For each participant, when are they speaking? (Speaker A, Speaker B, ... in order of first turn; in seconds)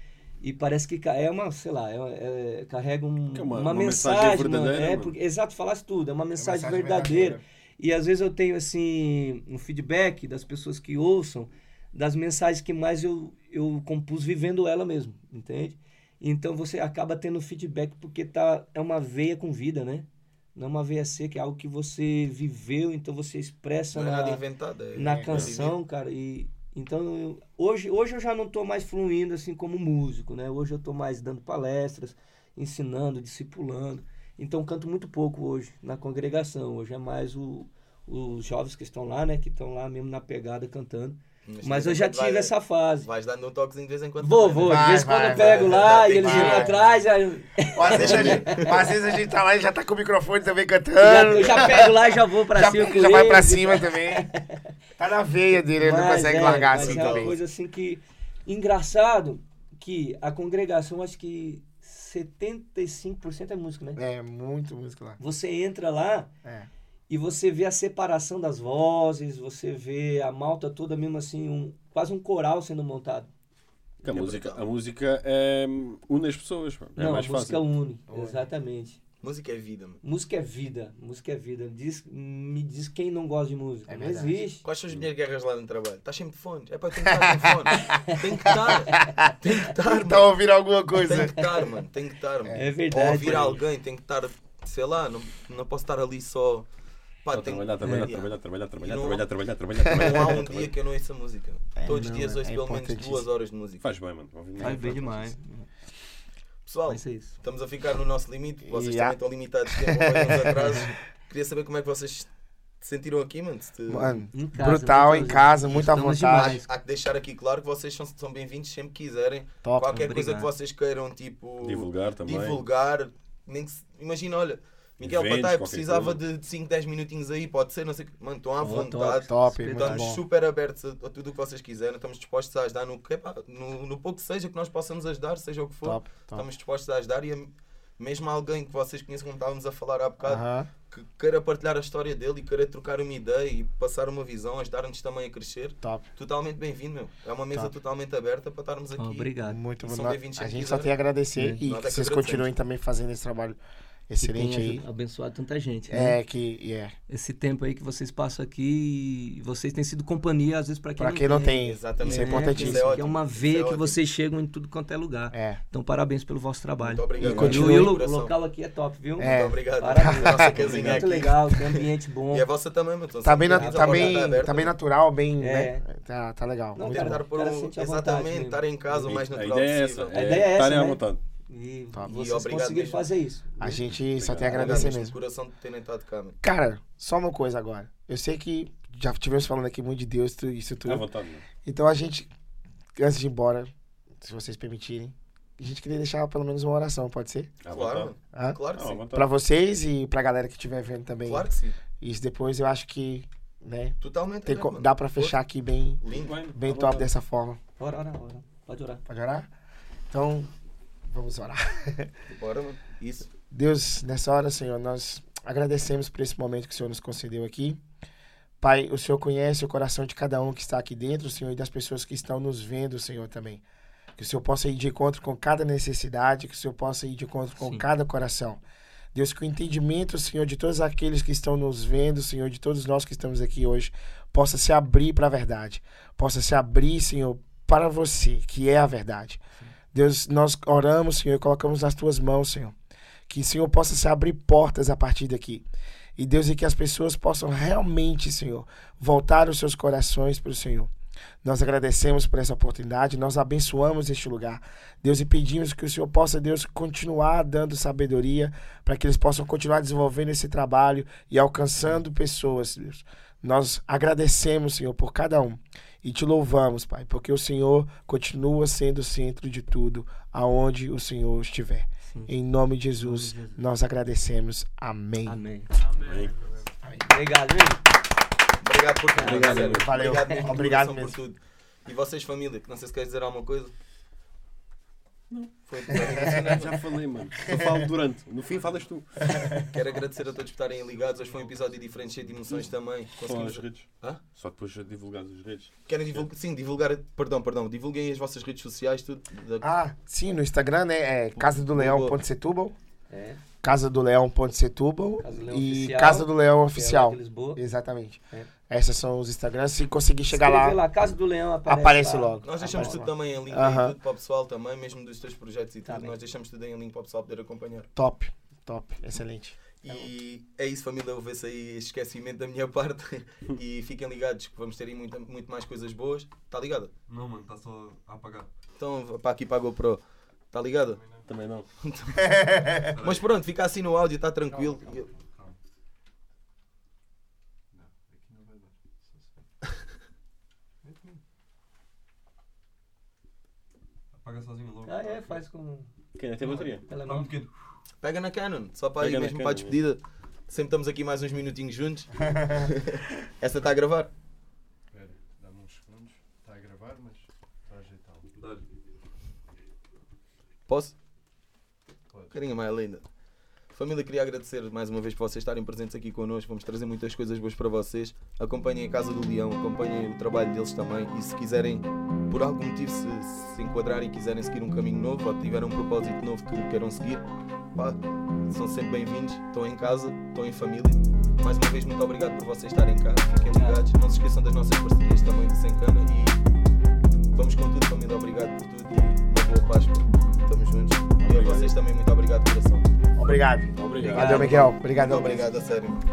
Speaker A: 0.4-24.4, 24.9-43.1, 44.2-48.7, 51.0-54.6, 55.8-64.0, 65.2-66.3, 67.1-73.3, 77.0-79.0, 80.0-84.6, 92.5-93.6, 97.8-98.1, 101.8-102.3, 104.6-105.7, 106.9-107.3, 114.3-116.7, 119.8-120.5, 128.6-130.1, 149.0-149.6, 151.3-151.6, 154.2-156.2, 157.1-172.5, 173.5-174.3, 175.4-175.9, 176.8-178.6, 180.1-183.8, 207.8-209.0, 227.6-227.8, 273.0-273.5, 275.3-275.7, 277.1-277.9, 279.1-280.4, 303.1-303.4, 305.2-307.6, 310.3-313.0, 315.9-316.2, 344.9-347.4, 383.4-383.8, 394.1-394.7
Speaker B: 3.3-5.1, 74.0-77.7, 97.3-100.7, 103.8-105.4, 121.6-122.6, 125.0-126.2, 167.2-167.7, 170.6-171.1, 178.9-181.2, 184.2-184.9, 190.8-191.4, 197.6-198.1, 198.7-199.3, 206.1-207.1, 276.0-276.3, 279.2-279.9, 285.3-289.4, 293.2-296.2, 331.3-331.7, 346.1-346.9, 349.0-349.8, 391.2-391.7, 393.8-394.7
Speaker C: 6.4-7.4, 25.1-25.4, 44.6-46.9, 47.8-51.9, 52.5-54.3, 55.0-57.4, 64.0-65.2, 66.4-66.7, 78.1-78.5, 83.9-84.4, 87.0-91.5, 92.5-92.8, 99.8-100.3, 101.8-103.3, 108.7-109.2, 109.7-110.9, 113.9-116.6, 119.6-120.0, 129.3-130.2, 135.8-136.5, 140.2-140.7, 149.4-153.6, 154.1-154.8, 155.9-156.9, 161.0-163.0, 165.3-165.6, 167.2-167.9, 169.2-171.2, 173.2-177.2, 183.6-185.2, 186.4-191.1, 191.6-192.3, 193.0-197.5, 198.3-201.5, 202.0-206.0, 206.5-207.6, 209.1-209.5, 210.1-210.5, 211.1-212.1, 213.5-217.8, 218.6-223.6, 224.2-228.6, 229.1-239.4, 239.9-242.8, 243.3-245.7, 246.2-250.9, 251.4-275.4, 279.5-281.2, 285.9-286.5, 287.5-287.9, 299.6-302.8, 303.6-310.8, 311.7-314.0, 318.0-320.0, 332.2-332.9, 393.2-395.5
Speaker D: 23.9-25.8, 41.5-46.9, 47.9-48.9, 51.1-51.9, 56.7-57.4, 74.0-74.6, 79.2-80.0, 84.6-90.4, 91.0-96.7, 97.2-99.3, 99.8-103.9, 106.7-112.3, 112.8-114.2, 116.4-150.9, 151.6-152.5, 161.6-164.0, 166.8-168.3, 169.2-174.8, 176.8-180.5, 182.1-183.1, 184.4-186.4, 197.7-199.0, 201.3-201.8, 204.0-205.4, 206.0-206.4, 212.3-213.3, 278.6-283.7, 285.7-286.8, 289.7-294.2, 295.9-299.7, 301.4-302.2, 312.4-317.9, 319.8-326.9, 328.8-331.0, 331.8-335.1, 348.0-354.1, 360.7-361.0, 362.3-363.1, 363.7-386.4, 387.3-392.8, 394.3-396.0
Speaker E: 275.8-276.7, 288.4-292.7, 327.1-328.5, 330.8-331.3, 332.8-333.3, 334.5-335.6, 337.7-339.9, 340.8-341.2, 344.1-345.4, 346.4-347.5, 354.9-358.7, 362.1-362.4